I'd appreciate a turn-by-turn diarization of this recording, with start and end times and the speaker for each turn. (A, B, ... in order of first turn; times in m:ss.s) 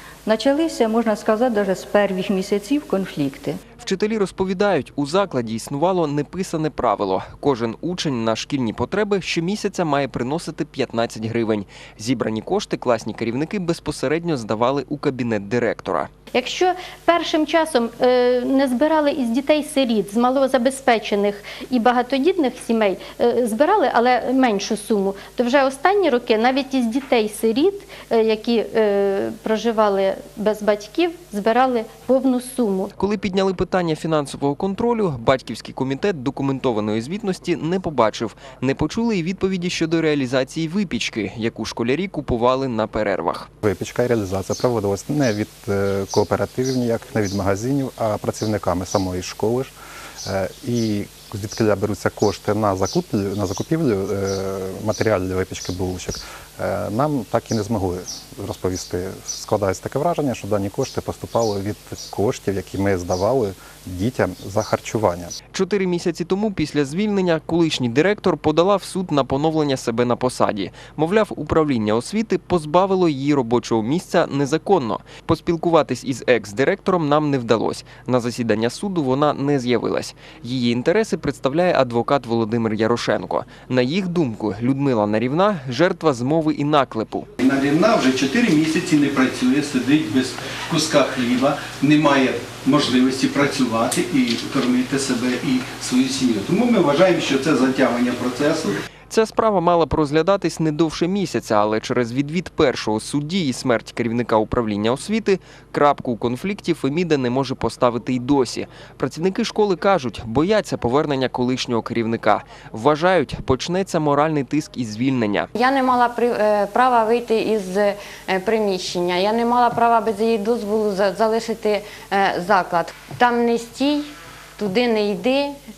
0:00.2-0:03.6 A
0:03.8-0:16.1 B
0:16.3-0:32.9 C
0:33.0-0:43.5 B
0:43.6-1:05.3 D
1:05.5-1:27.3 B
1:27.4-1:38.8 E
1:39.1-1:55.5 B
1:55.5-2:05.6 F